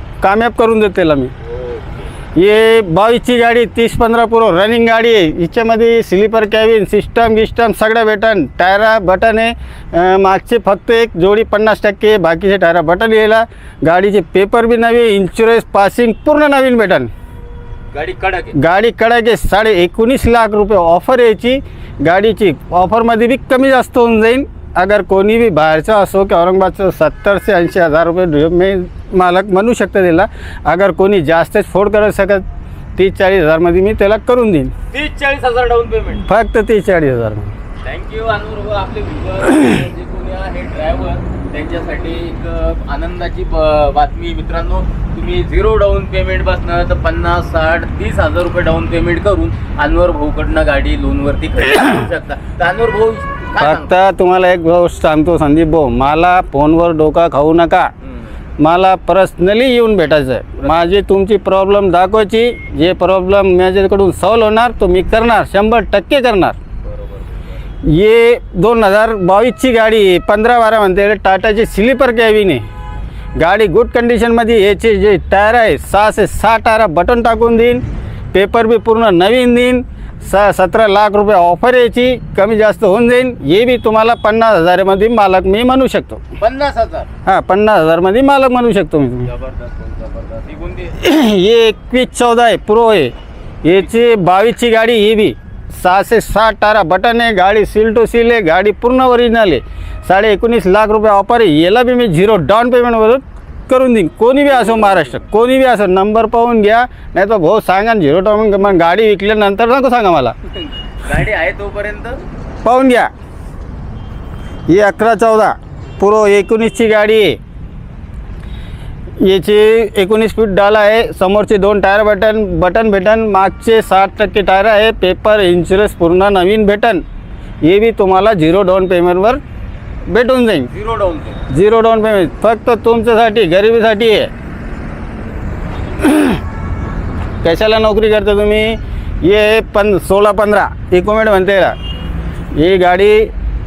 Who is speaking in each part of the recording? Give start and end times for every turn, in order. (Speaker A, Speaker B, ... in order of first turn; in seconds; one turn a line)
Speaker A: 0.2-1.3
Speaker B: 1.4-2.1
Speaker A: 2.4-17.1
Speaker B: 17.9-18.6
Speaker A: 18.6-32.5
Speaker A: 33.0-34.7
Speaker B: 34.9-36.3
Speaker A: 36.3-37.5
Speaker B: 37.8-53.9
Speaker A: 53.6-57.9
Speaker A: 58.6-66.6
Speaker B: 66.8-67.6
Speaker A: 67.8-72.7
Speaker A: 73.4-86.2
Speaker B: 86.4-87.1
Speaker A: 87.3-89.3
Speaker B: 89.2-91.0
Speaker A: 91.0-110.3
Speaker B: 104.5-105.1
Speaker B: 111.0-112.2
Speaker A: 112.6-113.1
Speaker A: 114.7-117.4
Speaker A: 119.2-127.0
Speaker A: 127.6-129.4
Speaker A: 130.1-130.7
Speaker B: 130.7-131.4
Speaker A: 131.5-134.3
Speaker A: 136.0-136.4
Speaker A: 137.4-141.8
Speaker A: 142.5-143.3